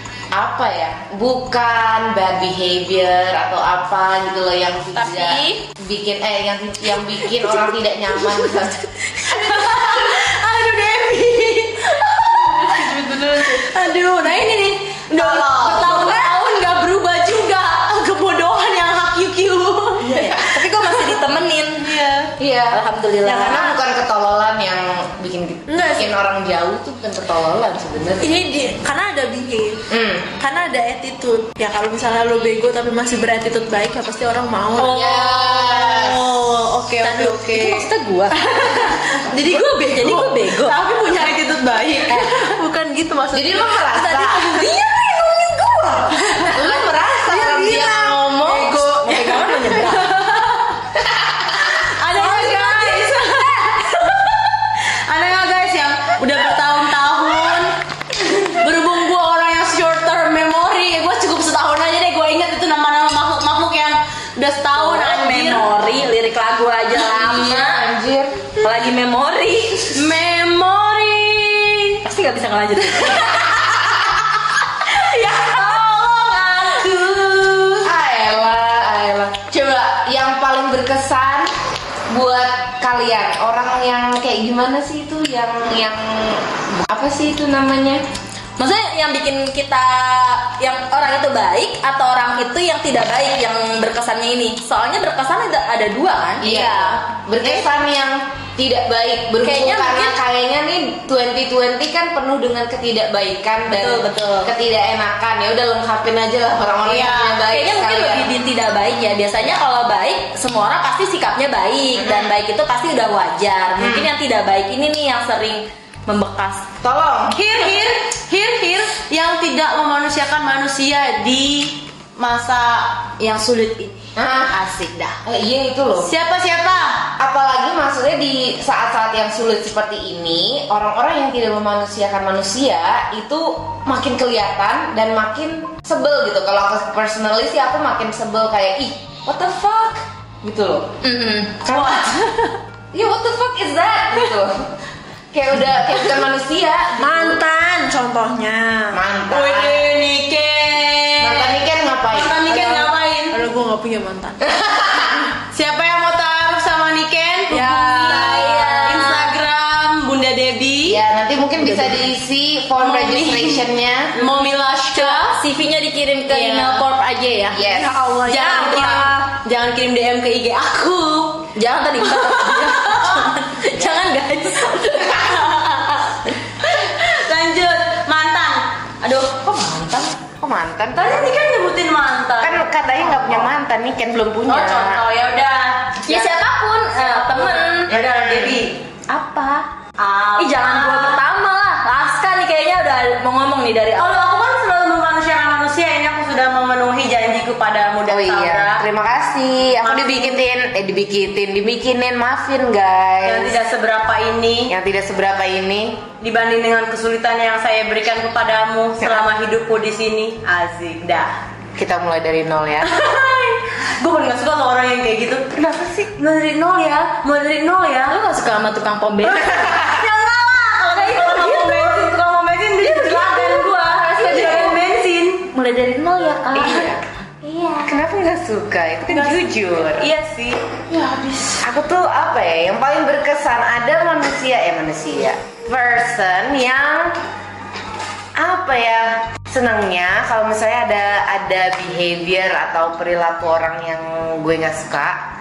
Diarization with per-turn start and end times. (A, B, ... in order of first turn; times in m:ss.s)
0:00.3-0:09.0 A
0:04.9-0:05.6 B
0:08.3-0:08.6 C
0:09.1-0:20.4 C
0:12.3-0:13.7 D
0:15.1-0:16.6 B
0:20.0-0:21.9 B
0:21.9-0:22.3 C
0:22.4-0:28.4 A
0:22.7-0:23.7 B
0:23.3-0:23.7 C
0:25.7-0:26.1 D
0:28.2-0:29.8 D
0:29.9-0:30.3 A
0:30.4-0:35.0 D
0:34.7-0:37.8 C
0:34.9-0:36.2 A
0:37.0-0:40.8 B
0:38.4-0:42.5 C
0:38.6-0:40.5 D
0:42.1-0:44.3 D
0:43.3-0:44.6 A
0:44.3-0:46.0 B
0:44.6-0:44.9 C
0:46.0-0:46.6 C
0:46.5-0:48.8 A
0:46.7-0:49.4 D
0:47.3-0:47.9 C
0:48.5-0:50.8 C
0:49.0-0:50.1 B
0:51.4-0:57.8 C
0:52.1-0:53.5 D
0:58.3-1:05.7 C
1:04.7-1:07.8 B
1:06.9-1:08.5 A
1:08.6-1:10.0 B
1:09.9-1:12.0 C
1:12.0-1:13.7 B
1:12.9-1:14.3 C
1:14.9-1:17.9 C
1:15.3-1:15.8 B
1:17.8-1:21.5 A
1:22.1-1:28.0 A
1:28.6-1:37.5 B
1:36.4-1:48.3 A
1:39.4-1:40.2 B
1:43.7-1:44.5 B
1:46.8-1:47.4 C
1:47.5-1:56.7 B
1:51.9-1:52.3 A
1:53.8-1:54.1 A
1:56.8-1:57.5 A
1:57.3-2:05.2 C
2:04.2-2:04.6 A
2:05.2-2:06.1 A
2:06.0-2:07.1 C
2:07.2-2:20.9 A
2:21.0-2:21.6 B
2:21.6-2:22.1 A
2:21.7-2:22.6 C
2:22.9-2:24.7 A
2:25.3-2:27.4 A
2:27.0-2:29.0 D
2:28.9-2:29.9 A
2:29.3-2:33.4 C
2:31.2-2:32.5 A
2:32.5-2:34.4 D
2:34.4-2:35.3 A
2:35.5-2:41.0 C
2:37.5-2:38.4 D
2:37.6-2:39.3 B
2:40.8-2:44.1 A
2:41.6-2:41.9 B
2:42.8-2:45.4 C
2:44.9-2:47.6 B
2:46.3-2:46.8 C
2:47.5-2:48.1 A
2:47.6-2:49.2 D
2:48.2-2:51.5 C
2:51.5-2:55.5 B
2:52.0-2:53.4 C
2:54.6-3:00.1 C
3:00.4-3:01.4 A
3:01.0-3:03.5 C
3:02.4-3:05.0 A
3:04.5-3:06.4 C
3:06.0-3:07.9 B
3:06.9-3:08.8 C
3:07.9-3:08.6 A
3:09.1-3:09.6 B
3:10.0-3:11.2 C
3:10.4-3:14.2 B
3:14.0-3:18.8 C
3:18.0-3:23.6 A
3:19.8-3:20.4 C
3:23.2-3:24.7 C
3:24.7-3:26.1 A
3:26.2-3:31.3 C
3:31.8-3:33.0 A
3:32.8-3:35.6 C
3:35.5-3:36.5 A
3:36.3-3:38.2 C
3:38.1-3:39.8 B
3:39.3-3:45.5 C
3:41.0-3:42.1 B
3:42.8-3:44.8 B
3:45.5-3:47.9 B
3:46.6-3:46.9 C
3:46.6-3:47.0 A
3:47.8-3:50.1 A
3:49.1-3:50.6 C
3:50.9-3:51.6 D
3:51.6-3:57.2 A
3:58.4-4:05.2 A